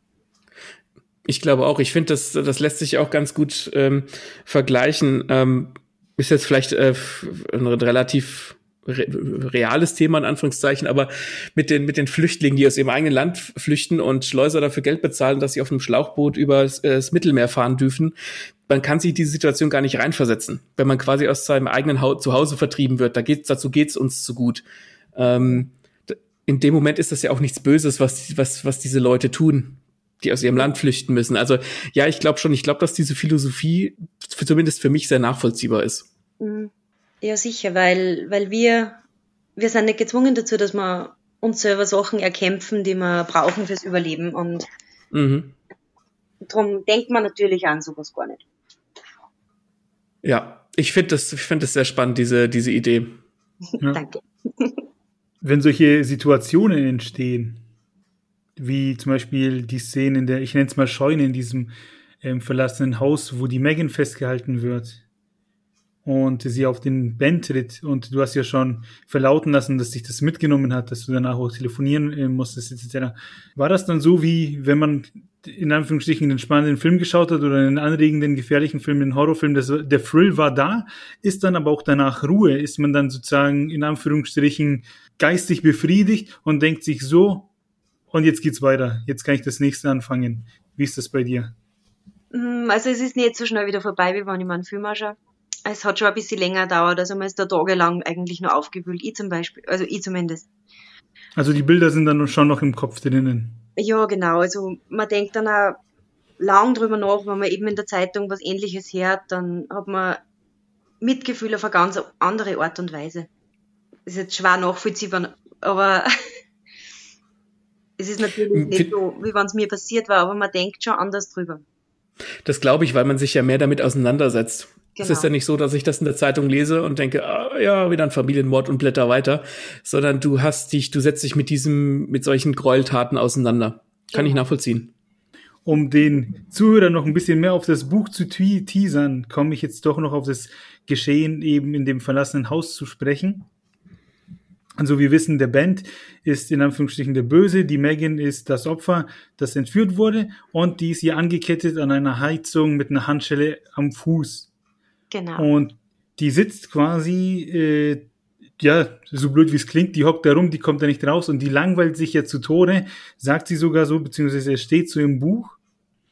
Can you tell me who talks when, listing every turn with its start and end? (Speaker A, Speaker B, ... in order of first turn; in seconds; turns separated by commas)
Speaker A: 1.2-18.1, Speaker A: 18.6-24.6, Speaker A: 25.1-36.1, Speaker B: 25.3-25.6, Speaker B: 36.4-36.7, Speaker B: 37.2-39.0, Speaker B: 39.6-44.7, Speaker A: 45.1-45.5, Speaker B: 46.4-48.4, Speaker A: 50.2-53.2, Speaker B: 53.7-54.8, Speaker C: 55.4-57.6, Speaker C: 58.6-61.7, Speaker C: 62.2-65.0, Speaker C: 66.0-87.5, Speaker C: 88.1-91.5, Speaker B: 92.3-100.5, Speaker C: 101.3-103.6, Speaker B: 103.8-105.8, Speaker B: 106.4-110.2, Speaker B: 111.0-113.3, Speaker B: 114.0-116.1, Speaker B: 118.0-121.6, Speaker A: 118.5-118.9, Speaker A: 122.4-134.9, Speaker B: 125.0-125.3, Speaker B: 134.1-134.4, Speaker C: 135.6-143.5, Speaker C: 144.8-154.5, Speaker B: 155.1-155.5, Speaker C: 155.4-165.6